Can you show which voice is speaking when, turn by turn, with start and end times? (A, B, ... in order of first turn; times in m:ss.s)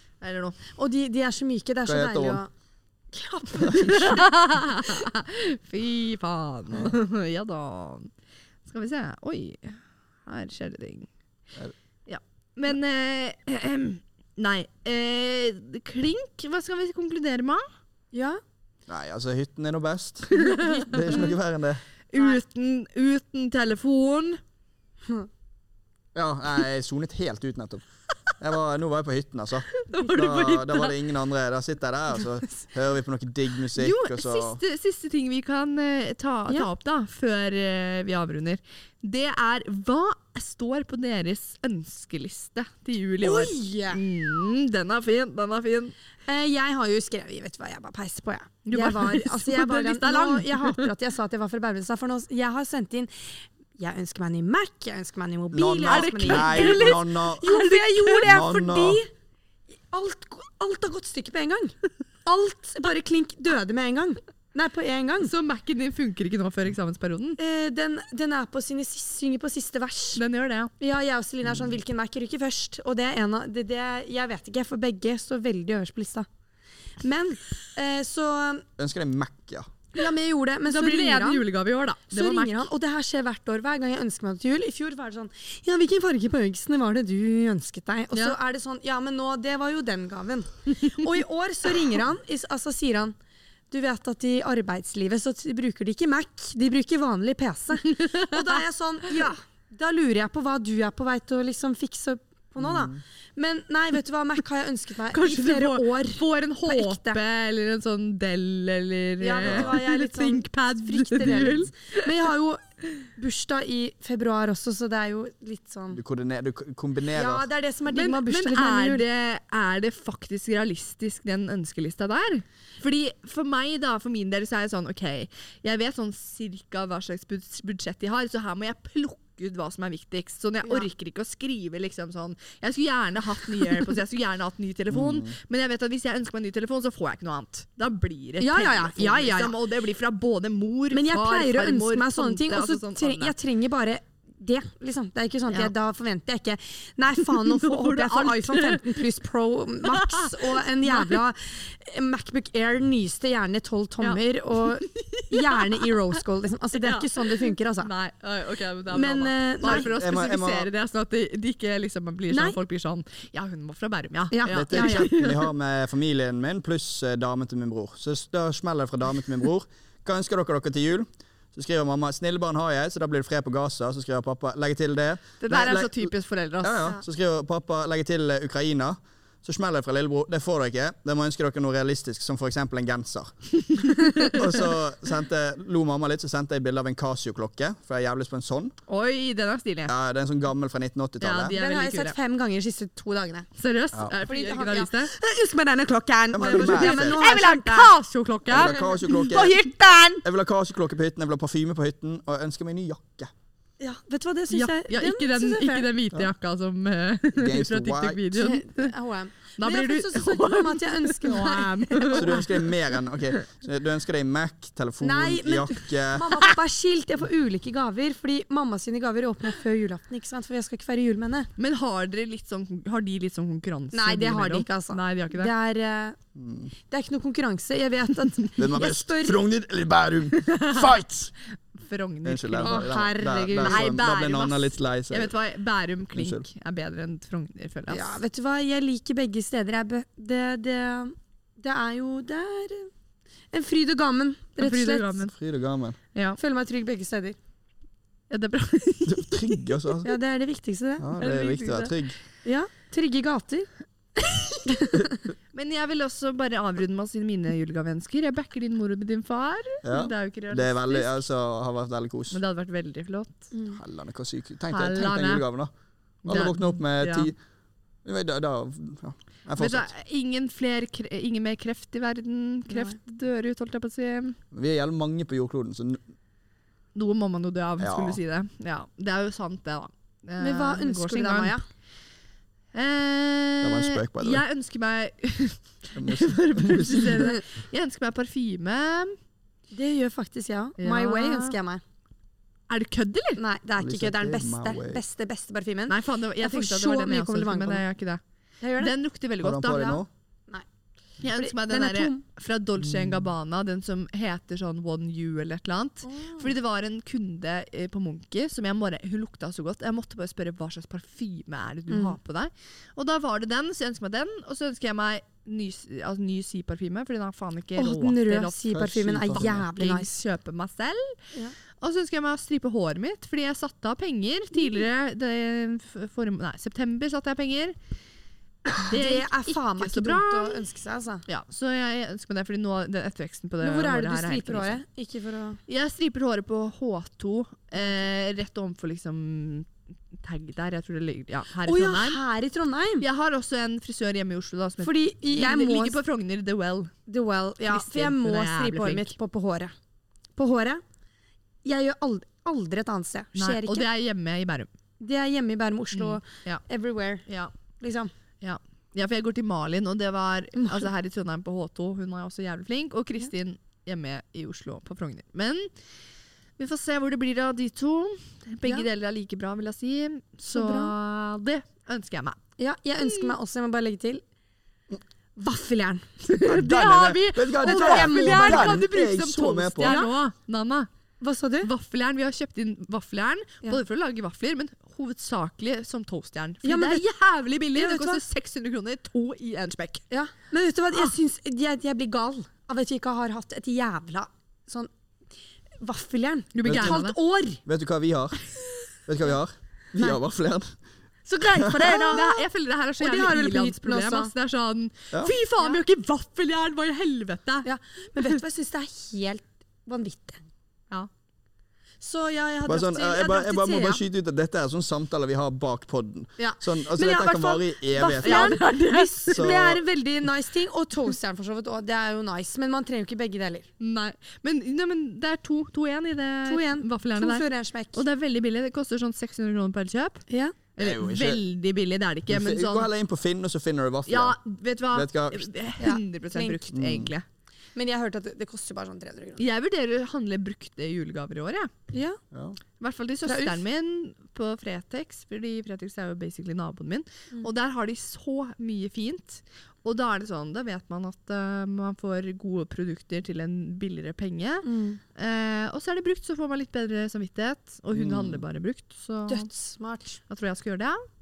0:00.2-0:00.6 A
0:00.8-0:02.5 B
0:01.8-0:02.4 C
0:03.1-0:04.3 B
0:03.7-0:08.1 A
0:08.6-0:11.1 A
0:12.0-0:17.7 A
0:18.1-0:18.4 B
0:18.9-0:20.4 C
0:20.3-0:21.3 A
0:20.4-0:21.3 B
0:20.9-0:21.8 C
0:22.1-0:24.4 A
0:26.1-0:27.8 C
0:28.4-0:34.6 C
0:29.7-0:31.0 A
0:33.7-0:45.9 A
0:43.2-0:44.0 B
0:46.2-0:59.1 B
0:48.6-0:50.9 A
0:55.5-0:57.5 C
0:55.8-0:58.3 A
0:58.2-0:59.0 C
0:59.9-1:05.3 B
1:05.2-1:07.4 A
1:07.4-1:10.2 B
1:10.2-1:10.7 A
1:10.8-1:16.2 B
1:17.0-1:18.6 B
1:18.8-1:19.7 C
1:19.9-1:21.4 B
1:20.7-1:22.7 A
1:22.1-1:33.1 B
1:33.7-1:47.2 B
1:37.8-1:38.6 A
1:42.6-1:43.0 C
1:45.1-1:52.1 A
1:49.2-1:56.0 B
1:49.4-1:49.7 C
1:51.2-1:51.6 C
1:55.9-1:57.5 C
1:57.1-1:59.0 B
1:57.9-2:23.3 A
2:14.9-2:15.3 C
2:18.4-2:19.5 B
2:20.9-2:37.9 B
2:27.2-2:29.0 A
2:29.8-2:31.2 A
2:34.9-2:35.9 A
2:36.7-2:45.5 A
2:38.9-2:39.9 B
2:39.6-2:40.7 C
2:42.3-2:42.6 B
2:44.3-2:45.2 B
2:44.5-3:03.3 C
2:55.4-2:56.9 A
3:03.6-3:04.5 A
3:04.2-3:08.7 C
3:08.9-3:09.9 A
3:09.9-3:11.6 C
3:11.2-3:12.1 A
3:11.6-3:13.5 B
3:13.6-3:15.1 A
3:14.2-3:17.9 B
3:16.3-3:17.2 C
3:16.4-3:19.1 A
3:18.5-3:19.6 C
3:18.6-3:20.2 B
3:20.2-3:23.3 C
3:23.8-3:25.9 B
3:24.5-3:28.9 A
3:27.4-3:28.3 C
3:28.3-3:32.4 B
3:29.6-3:32.4 A
3:32.1-3:36.4 C
3:35.0-3:41.5 B
3:41.6-3:45.5 A
3:43.9-3:46.2 B
3:46.4-3:46.7 C
3:46.9-3:49.4 B
3:48.6-3:51.3 C
3:50.4-3:50.9 A
3:51.8-3:52.9 A
3:52.2-3:55.3 C
3:52.6-3:53.9 B
3:53.6-3:58.2 A
3:56.2-3:56.4 C
3:57.9-4:02.9 B
4:03.5-4:05.2 B
4:04.6-4:05.3 A
4:05.3-4:06.0 C
4:06.1-4:06.4 A
4:06.4-4:07.4 B
4:08.3-4:09.6 A
4:09.1-4:10.1 C
4:10.0-4:11.1 B
4:11.0-4:12.2 C
4:11.2-4:11.9 A
4:12.4-4:13.7 B
4:14.2-4:14.7 A
4:14.6-4:15.2 B
4:15.5-4:21.2 A
4:19.8-4:22.4 C
4:22.3-4:23.5 A
4:23.5-4:23.8 B
4:23.7-4:25.7 C
4:24.7-4:25.4 A
4:26.2-4:27.3 A
4:26.2-4:27.4 C
4:28.0-4:29.9 C
4:29.6-4:34.4 A
4:32.7-4:32.9 B
4:34.5-4:36.0 C
4:36.9-4:41.6 A
4:37.8-4:38.2 C
4:40.4-4:41.6 B
4:42.7-4:49.2 A
4:43.6-4:44.4 C
4:45.9-4:47.3 C
4:49.7-4:51.8 B
4:50.8-4:51.6 A
4:52.7-4:53.4 A
4:53.4-4:57.8 B
4:53.8-4:55.0 C
4:55.9-4:58.2 A
4:58.6-4:58.9 B
4:58.8-5:00.0 A
4:59.4-5:00.1 C
4:59.7-5:00.6 B
5:01.2-5:18.6 A
5:01.3-5:02.2 B
5:02.8-5:03.3 C
5:06.0-5:06.5 B
5:11.9-5:12.2 B
5:17.8-5:20.1 B
5:18.7-5:19.6 C
5:19.3-5:21.2 A
5:21.8-5:27.8 A
5:28.7-5:30.6 A
5:28.8-5:31.2 B
5:31.3-5:34.8 A
5:33.6-5:35.6 B
5:35.7-5:42.2 A
5:41.6-5:43.0 B
5:43.0-5:46.9 A
5:44.8-5:46.0 B
5:47.1-5:49.7 B
5:47.6-5:49.1 A
5:50.4-5:50.8 B
5:51.6-5:53.9 B
5:53.3-5:54.7 A
5:55.0-5:57.3 B
5:55.9-5:56.6 A
5:57.3-5:57.5 A
5:57.8-5:58.1 B
5:58.4-6:05.7 A
6:00.6-6:00.8 B
6:06.6-6:12.4 A
6:10.4-6:10.9 B
6:12.6-6:14.2 B
6:13.0-6:13.3 A
6:15.4-6:16.1 B
6:16.2-6:20.9 A
6:16.4-6:20.0 C
6:17.6-6:18.9 B
6:19.8-6:20.1 B
6:21.2-6:21.7 B
6:21.6-6:30.1 A
6:26.6-6:27.0 B
6:27.7-6:28.2 B
6:30.1-6:34.9 B
6:35.8-6:37.6 B
6:36.5-6:37.2 A
6:36.6-6:37.0 C
6:37.6-6:38.4 C
6:39.0-6:40.7 C
6:41.2-6:42.4 B
6:41.5-6:42.2 C
6:42.1-6:48.4 A
6:43.0-6:44.3 B
6:47.6-6:50.4 B
6:52.0-6:54.0 B
6:52.6-6:58.6 C
6:56.4-7:03.7 B
6:58.2-6:59.5 A
6:59.3-6:59.8 C
7:03.8-7:10.2 A
7:06.4-7:08.0 B
7:10.3-7:10.6 B
7:10.8-7:12.9 A
7:10.8-7:11.4 C
7:12.3-7:14.4 C
7:14.1-7:17.2 A
7:14.9-7:15.5 C
7:15.8-7:16.6 B
7:16.7-7:17.1 C
7:17.7-7:19.4 B
7:19.4-7:21.7 A
7:21.9-7:22.2 B
7:22.3-7:22.6 C
7:22.8-7:39.5 A
7:23.2-7:23.6 B
7:34.6-7:35.0 B
7:37.9-7:38.4 C
7:39.3-7:40.2 B
7:40.3-7:41.0 A